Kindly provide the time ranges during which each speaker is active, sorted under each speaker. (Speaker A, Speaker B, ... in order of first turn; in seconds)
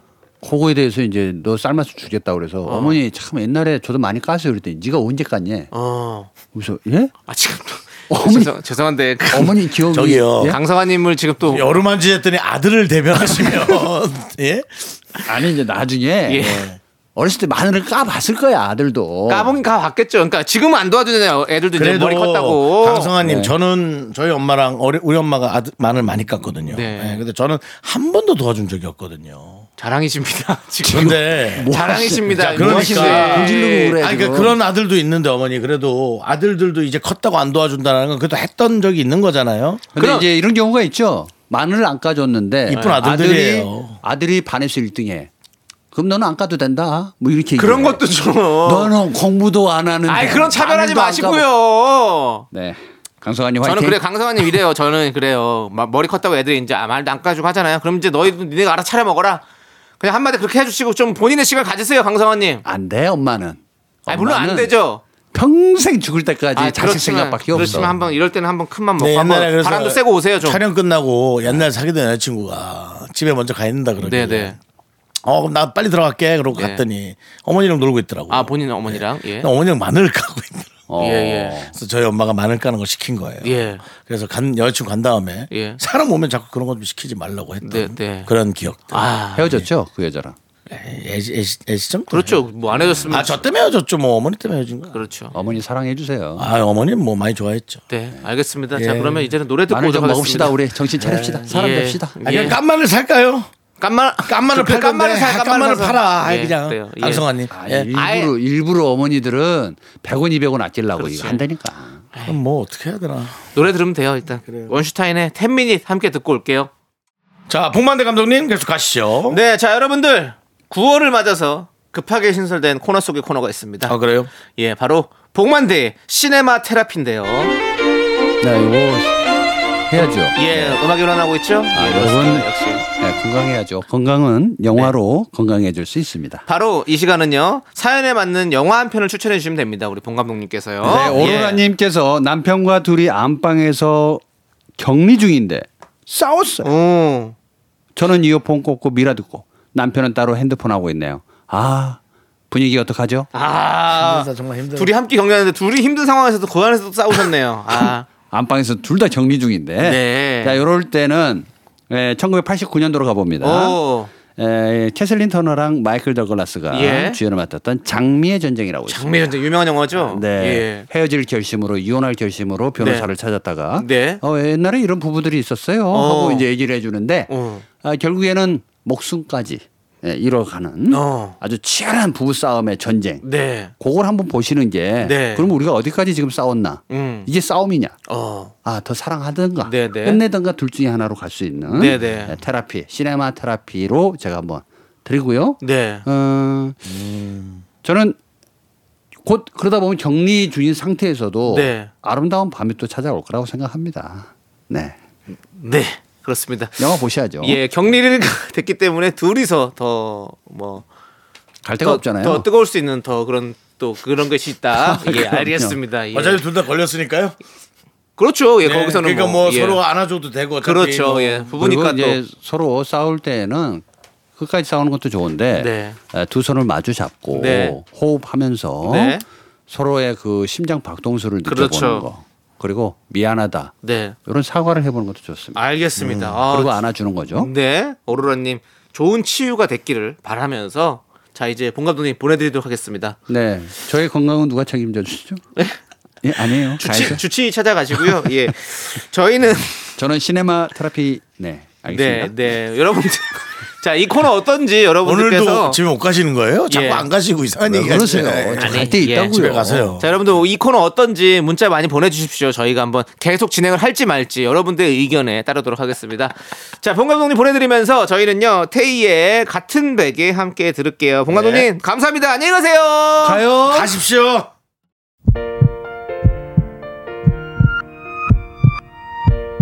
Speaker A: 0.4-5.7, 6.5-7.1, 8.1-8.5, 9.3-10.6, 15.2-19.6, 23.2-23.5, 31.6-34.6, 39.9-45.3, 45.9-48.0, 48.6-51.4, 52.5-54.0, 62.6-64.7, 65.3-68.0, 80.9-81.7, 89.3-90.3, 95.3-96.5, 99.7-102.5, 107.5-112.0, 128.4-129.2, 129.9-130.8, 131.7-132.5, 133.0-136.4, 140.8-144.2, 144.8-146.7, 147.9-152.0, 152.5-153.3, 157.7-169.3, 169.9-188.0, 188.6-196.8, 197.8-198.2, 199.2-205.0, 206.8-207.7, 211.6-212.5, 214.7-215.8, 221.5-223.8, 224.4-233.7, 234.2-235.6, 236.5-237.5, 243.3-245.4, 246.2-247.2, 250.0-252.6, 257.7-260.0, 273.2-274.0
Speaker B: 2.6-3.0, 5.7-6.3, 7.3-9.7, 10.4-11.7, 16.3-16.7, 19.3-23.1, 26.7-27.2, 29.8-34.0, 40.0-40.3, 42.7-43.0, 47.6-49.0, 50.0-52.5, 53.6-59.4, 60.0-62.6, 64.1-65.0, 66.5-70.6, 74.0-74.6, 76.5-76.8, 78.3-79.5, 81.0-81.6, 83.4-83.8, 85.5-85.8, 87.6-88.3, 88.9-89.6, 92.1-93.5, 94.9-95.3, 97.9-100.6, 101.5-102.6, 103.8-107.3, 107.9-108.3, 111.0-111.4, 113.5-116.7, 119.3-123.9, 124.5-127.5, 130.3-132.8, 136.5-141.6, 146.6-147.3, 153.3-158.1, 159.8-160.6, 163.4-164.1, 166.7-167.2, 168.9-170.9, 172.8-173.1, 173.8-174.2, 175.9-176.4, 177.3-177.6, 180.9-181.4, 183.2-183.7, 185.0-185.5, 186.9-187.3, 188.1-188.5, 189.6-190.2, 191.7-192.4, 195.6-196.0, 201.5-201.9, 205.5-210.8, 211.8-216.4, 218.2-219.8, 220.6-222.2, 225.5-226.0, 227.3-227.8, 228.8-229.2, 231.4-232.1, 233.8-234.2, 235.5-236.8, 237.3-243.2, 246.7-249.9, 251.9-255.8, 256.7-257.1, 258.6-259.3, 260.0-273.4
Speaker C: 9.9-10.6, 11.4-14.9, 16.4-16.7, 21.7-29.7, 30.9-31.7, 32.3-39.9, 42.7-44.0, 67.5-68.0, 69.0-74.6, 75.2-80.8, 81.7-89.7, 90.7-92.4, 93.1-95.0, 96.4-97.8, 98.7-99.3, 101.0-101.5, 102.2-103.5, 104.2-107.9, 112.2-113.4, 114.5-114.8, 117.5-119.4, 123.8-124.3, 153.9-154.9, 196.9-197.6, 216.1-217.3, 218.6-221.5, 236.0-236.4, 255.0-260.1, 271.3-271.7, 273.6-274.5